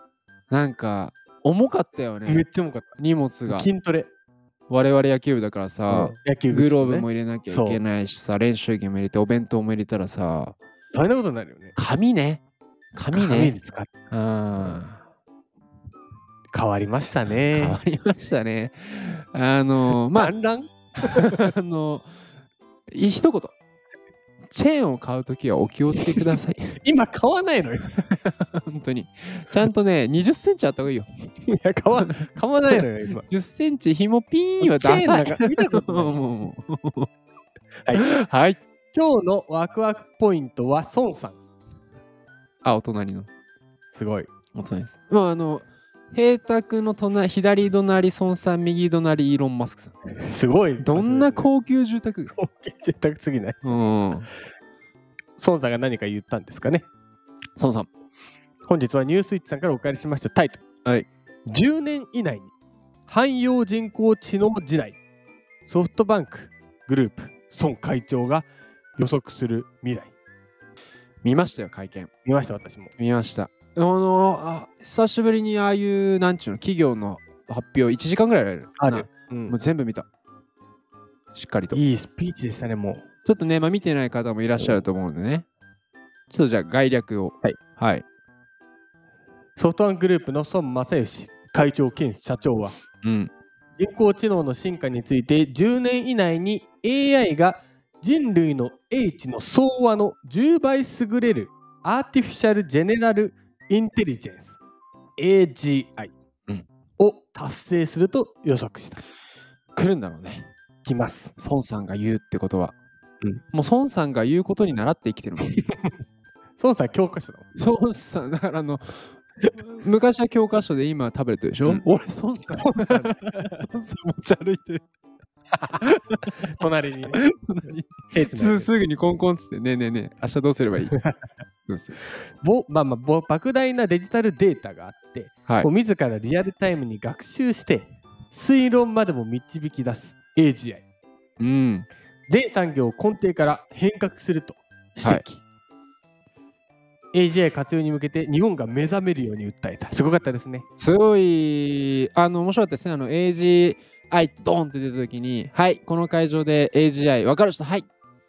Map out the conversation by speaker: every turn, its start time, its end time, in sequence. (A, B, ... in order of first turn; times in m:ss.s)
0:00.5-0:02.4 A
0:02.2-0:04.1 B
0:03.0-0:03.7 A
0:04.7-0:10.6 A
0:05.9-0:07.8 B
0:10.9-0:11.8 B
0:11.7-0:12.4 A
0:12.9-0:13.6 A
0:13.1-0:13.9 B
0:14.1-0:15.0 A
0:14.6-0:14.8 B
0:16.5-0:17.8 B
0:17.5-0:20.3 A
0:20.1-0:21.5 B
0:21.1-0:22.1 A
0:22.9-0:23.6 A
0:24.5-0:26.8 A
0:26.8-0:28.0 B
0:28.0-0:31.1 A
0:31.5-0:33.2 B
0:32.7-0:37.1 A
0:34.6-0:36.2 B
0:37.8-0:38.1 B
0:37.9-0:38.6 A
0:38.9-0:41.4 B
0:42.6-0:43.3 A
0:43.9-0:44.3 B
0:44.5-0:50.0 A
0:50.1-0:51.5 B
0:50.8-0:52.3 A
0:52.3-0:53.8 B
0:53.6-0:54.3 A
0:55.4-0:56.9 B
0:57.6-0:57.9 A
0:58.6-1:00.6 B
1:01.5-1:02.5 B
1:03.1-1:05.0 B
1:05.7-1:10.1 B
1:11.2-1:12.1 A
1:12.2-1:12.9 B
1:13.0-1:20.0 A
1:18.8-1:19.6 B
1:21.3-1:21.8 A
1:21.7-1:23.0 B
1:23.2-1:25.4 A
1:26.3-1:28.0 A
1:29.6-1:32.8 B
1:33.0-1:33.3 A
1:33.8-1:44.6 B
1:45.2-1:46.1 B
1:47.0-1:49.0 B
1:49.7-1:50.5 A
1:50.8-1:51.3 B
1:51.4-1:52.8 A
1:53.5-1:55.5 A
1:56.6-1:57.5 B
1:57.5-2:04.8 A
2:02.5-2:03.6 B
2:06.0-2:06.3 A
2:06.4-2:07.2 B
2:07.1-2:11.0 A
2:08.1-2:08.7 B
2:11.7-2:12.2 A
2:12.4-2:20.8 B
2:21.4-2:21.9 A
2:22.3-2:25.4 B
2:27.1-2:30.7 B
2:30.8-2:37.9 A